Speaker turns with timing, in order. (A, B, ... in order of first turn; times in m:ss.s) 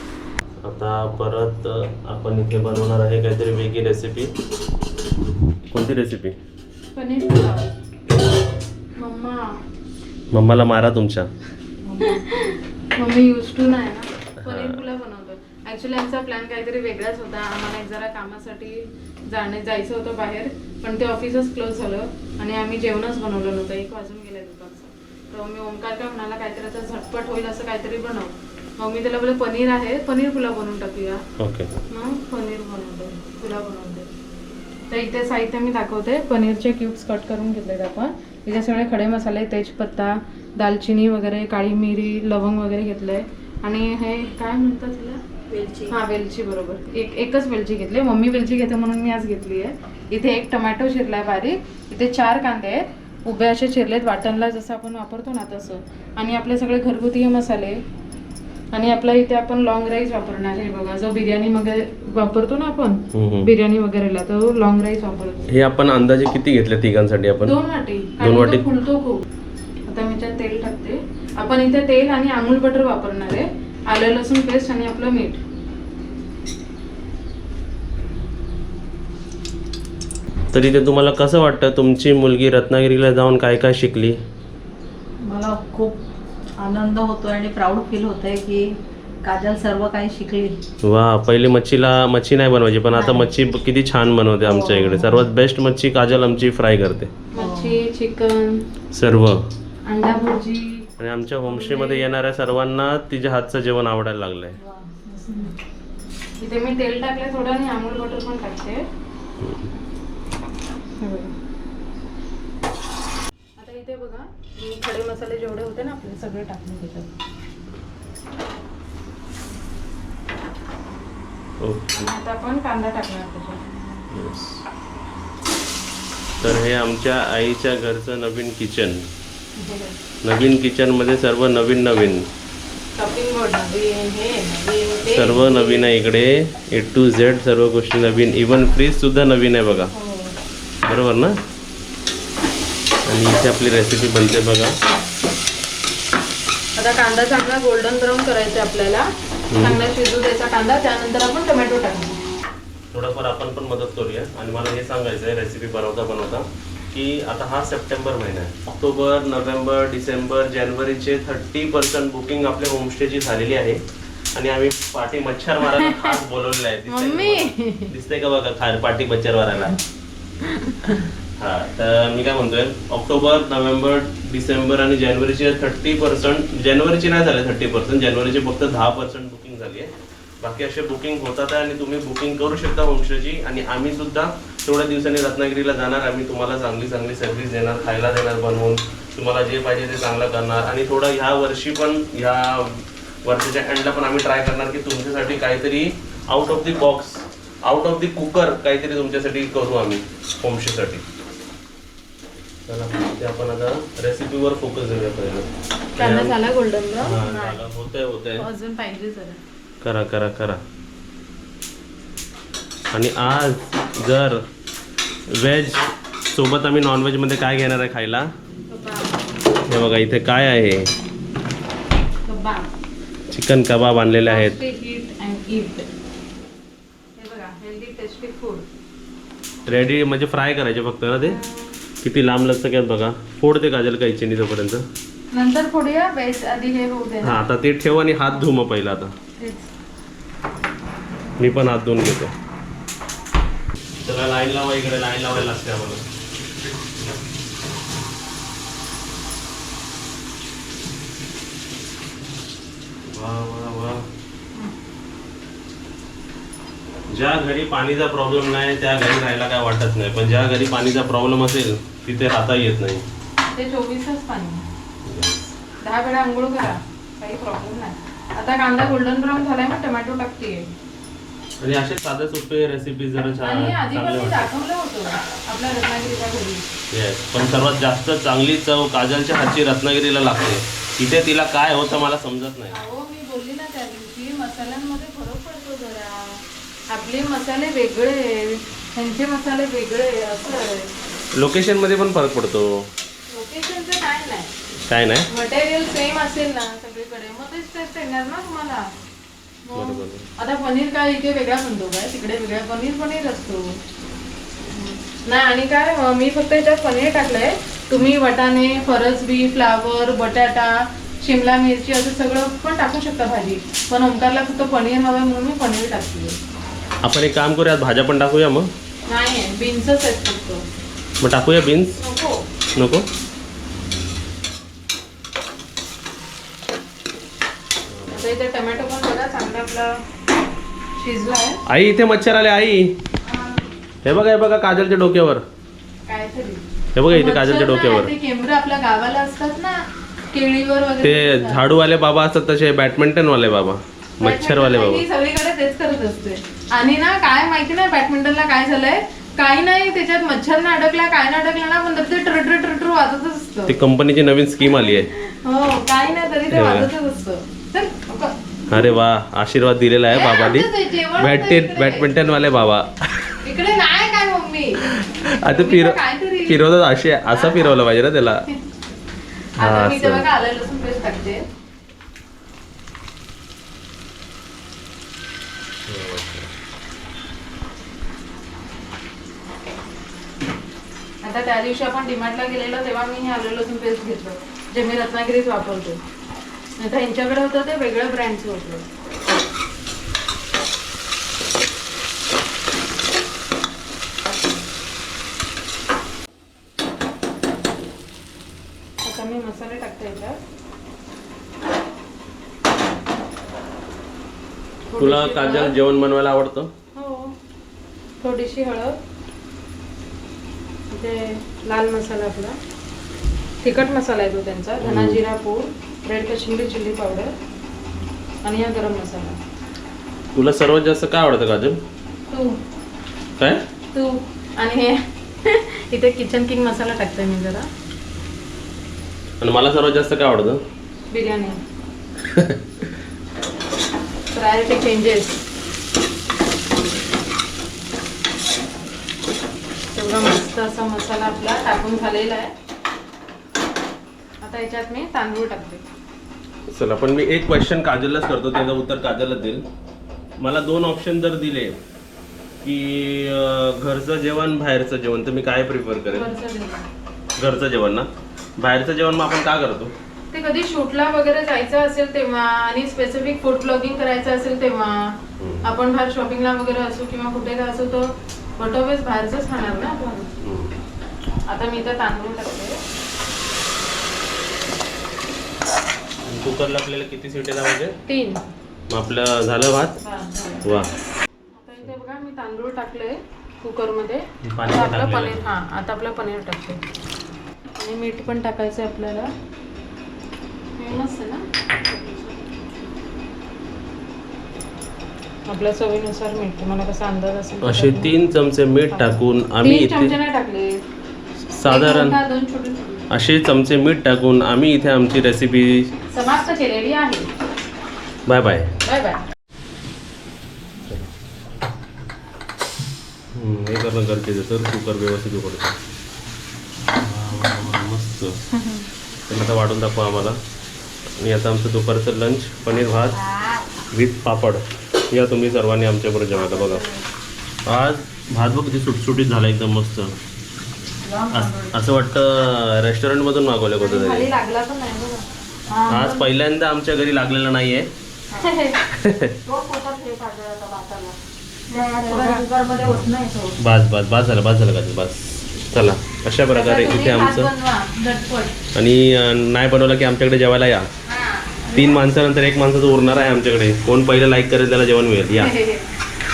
0:00.6-0:04.3 A
0:05.7-0:06.4 A
0:07.0-0:07.7 B
0:09.0-0:09.6 B
0:10.3-0:11.3 A
0:11.8-0:31.2 B
0:14.4-0:14.8 A
0:31.4-0:31.7 A
0:31.9-0:34.1 B
0:34.9-0:45.2 B
0:45.5-0:45.9 C
0:45.9-0:57.8 B
0:58.7-1:05.5 B
1:03.1-1:03.5 A
1:05.5-1:07.6 A
1:07.4-1:09.2 B
1:08.2-1:08.7 A
1:09.9-1:15.4 B
1:20.5-1:24.2 A
1:25.2-1:26.0 C
1:26.6-1:30.6 C
1:30.8-1:37.1 A
1:33.0-1:33.3 C
1:34.4-1:35.2 C
1:37.3-1:38.6 B
1:37.4-1:37.8 C
1:38.9-1:39.4 A
1:39.9-1:40.9 B
1:41.0-1:44.6 A
1:41.4-1:42.0 B
1:45.1-1:45.5 B
1:46.4-1:48.8 B
1:49.4-1:49.7 A
1:51.0-1:51.3 B
1:53.6-1:57.1 B
2:01.6-2:02.1 A
2:01.9-2:03.7 B
2:04.1-2:04.6 A
2:06.4-2:09.0 A
2:09.6-2:10.0 B
2:10.2-2:12.3 A
2:13.0-2:15.9 B
2:15.1-2:19.9 A
2:19.9-2:20.4 B
2:20.8-2:21.4 A
2:23.1-2:24.8 A
2:26.8-2:32.2 B
2:29.5-2:29.8 A
2:32.9-2:43.8 A
2:44.4-2:49.8 A
2:45.6-2:46.2 B
2:46.9-2:47.9 B
2:50.4-2:51.0 B
2:51.4-3:21.0 A
3:22.7-3:26.4 A
3:26.0-3:27.6 B
3:27.0-3:28.5 A
3:28.4-3:29.4 B
3:29.8-3:30.6 A
3:32.9-3:34.4 A
3:35.3-3:38.3 A
3:38.7-3:39.2 B
3:39.7-3:40.9 A
3:42.3-3:42.7 B
3:43.3-3:44.6 A
3:44.3-3:45.9 B
3:47.2-3:48.7 B
3:49.7-3:51.4 A
3:51.2-3:51.8 B
3:52.0-3:54.8 A
3:55.3-3:57.4 B
3:57.2-3:59.1 A
3:59.4-3:59.7 B
4:01.4-4:02.3 A
4:04.0-4:06.0 A
4:13.1-4:14.0 A
4:17.1-4:23.0 A
4:23.5-4:24.6 B
4:25.0-4:25.6 A
4:25.8-4:30.7 B
4:31.6-4:34.5 A
4:33.4-4:36.7 B
4:36.9-4:42.8 A
4:42.7-4:50.9 B
4:51.4-4:52.9 A
4:53.3-4:54.5 B
4:54.9-4:55.3 A
4:55.3-4:58.9 B
4:59.7-5:03.8 B
4:59.8-5:00.3 A
5:04.7-5:16.4 B
5:17.0-5:18.7 A
5:19.1-5:20.6 B
5:21.2-5:22.0 A
5:22.0-5:22.4 B
5:22.8-5:23.0 A
5:27.9-5:28.2 A
5:28.1-5:30.0 B
5:31.0-5:31.6 B
5:31.7-5:33.0 A
5:33.3-5:33.6 B
5:34.0-5:35.4 A
5:36.1-5:41.6 B
5:37.0-5:38.1 A
5:41.0-5:45.0 A
5:44.2-5:53.8 B
5:53.7-5:55.1 A
5:54.6-5:58.4 B
5:56.5-5:56.9 A
5:58.7-6:03.4 A
6:00.1-6:02.1 B
6:03.4-6:06.6 B
6:04.9-6:08.4 A
6:07.3-6:07.8 B
6:09.6-6:10.3 A
6:09.6-6:11.4 B
6:15.9-6:16.5 A
6:21.2-6:26.0 B
6:26.8-6:28.8 B
6:39.0-6:40.4 B
6:44.9-6:45.7 B
6:45.0-6:46.7 A
6:47.0-6:47.3 B
6:48.2-6:49.0 B
6:50.9-6:52.6 B
6:53.6-6:57.3 B
6:54.8-6:55.2 A
6:58.4-6:59.4 B
7:00.3-7:01.8 A
7:02.3-7:02.6 B
7:03.9-7:07.7 B
7:09.4-7:10.6 A
7:11.1-7:11.6 B
7:12.3-7:12.6 A
7:14.3-7:15.5 B
7:19.9-7:22.5 B
7:24.4-7:25.8 B
7:26.7-7:29.6 A
7:30.4-7:31.8 A
7:32.6-7:36.3 A
7:36.1-7:36.9 B
7:37.4-7:39.9 A
7:40.3-7:50.3 B
7:45.4-7:45.8 A
7:50.4-7:50.8 A
7:51.5-7:52.8 B
7:56.3-7:58.0 A
7:58.1-7:58.4 B
7:58.9-8:00.0 A
8:00.0-8:00.7 B
8:00.6-8:00.9 A
8:01.6-8:06.8 B
8:04.5-8:05.4 A
8:07.8-8:09.3 B
8:10.8-8:12.4 B
8:15.5-8:18.1 B
8:17.6-8:20.1 A
8:18.9-8:20.8 B
8:21.5-8:22.2 A
8:21.7-8:23.1 B
8:23.1-8:25.9 A
8:26.1-8:27.3 B
8:28.3-8:28.7 A
8:28.8-8:29.2 B
8:33.3-8:35.8 A
8:37.0-8:38.4 A
8:39.3-8:40.4 A
8:41.2-8:43.2 A
8:43.9-8:46.8 A
8:46.5-8:46.9 B
8:47.7-8:50.2 A
8:51.0-8:51.7 C
8:51.3-8:54.3 A
8:53.8-8:56.3 B
8:55.9-8:57.9 A
8:58.3-8:58.8 B
8:58.9-8:59.4 A
8:59.5-9:01.1 B
9:01.7-9:03.6 B
9:01.8-9:02.5 C
9:03.6-9:07.5 A
9:06.5-9:08.6 B
9:08.7-9:10.9 A
9:11.1-9:12.0 B
9:11.7-9:15.5 A
9:15.4-9:15.8 B